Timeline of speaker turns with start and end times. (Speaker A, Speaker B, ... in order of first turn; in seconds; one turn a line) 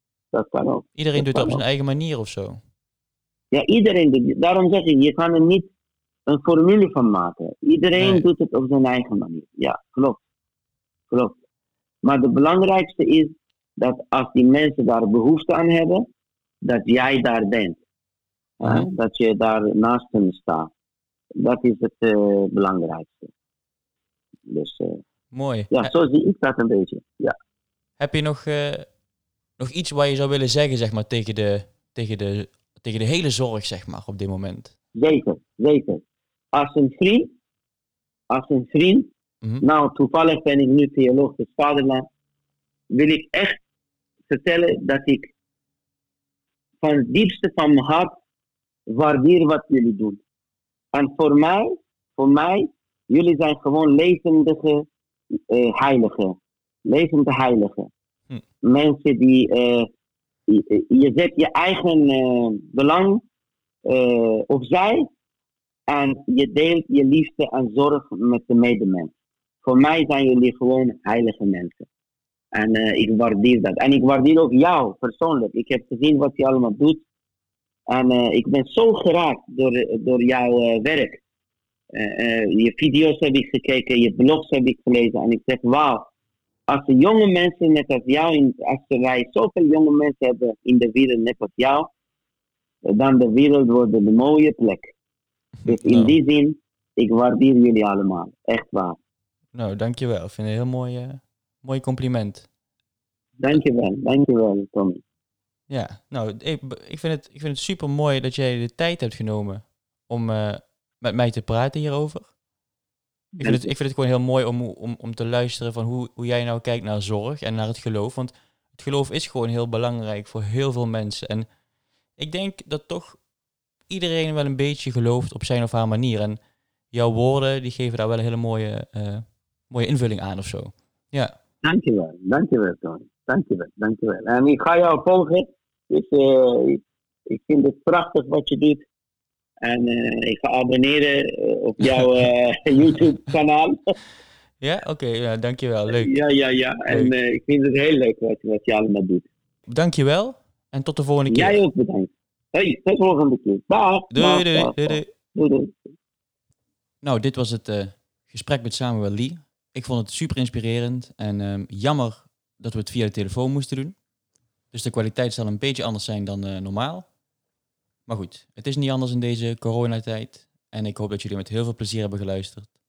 Speaker A: 0.3-1.6
Speaker B: 0.9-2.6
Speaker A: 3.5-5.7
Speaker A: 6.3-10.2
Speaker B: 8.0-8.2
Speaker A: 11.1-11.3
Speaker A: 12.0-16.0
Speaker A: 16.6-17.8
Speaker A: 18.6-20.7
Speaker B: 18.6-18.9
Speaker A: 21.4-23.3
Speaker A: 24.5-25.0
Speaker B: 25.3-25.9
Speaker A: 25.7-27.3
Speaker B: 28.0-28.9
Speaker B: 29.6-34.7
Speaker A: 34.9-36.0
Speaker A: 36.5-37.3
Speaker A: 38.3-39.1
Speaker A: 39.6-42.0
Speaker A: 42.9-43.6
Speaker A: 44.3-45.3
Speaker A: 46.8-48.2
Speaker A: 48.9-50.2
Speaker A: 50.9-57.9
Speaker A: 58.6-59.9
Speaker A: 60.5-63.2
Speaker A: 63.9-65.1
Speaker A: 65.9-69.1
Speaker A: 69.6-71.8
Speaker A: 72.5-77.0
Speaker A: 77.9-81.2
Speaker A: 81.9-86.1
Speaker A: 86.7-91.9
Speaker A: 92.8-94.9
Speaker B: 95.6-96.1
Speaker A: 95.7-99.0
Speaker B: 99.5-102.5
Speaker A: 103.4-105.0
Speaker B: 105.7-112.3
Speaker A: 113.4-113.7
Speaker B: 113.4-121.5
Speaker B: 122.2-123.2
Speaker B: 123.9-126.4
Speaker B: 126.9-131.3
Speaker A: 131.6-138.8
Speaker A: 139.6-143.8
Speaker B: 144.6-146.2
Speaker A: 145.9-149.3
Speaker B: 149.7-151.6
Speaker A: 151.3-155.9
Speaker B: 154.1-155.1
Speaker B: 157.0-164.0
Speaker B: 164.7-167.1
Speaker B: 168.1-172.7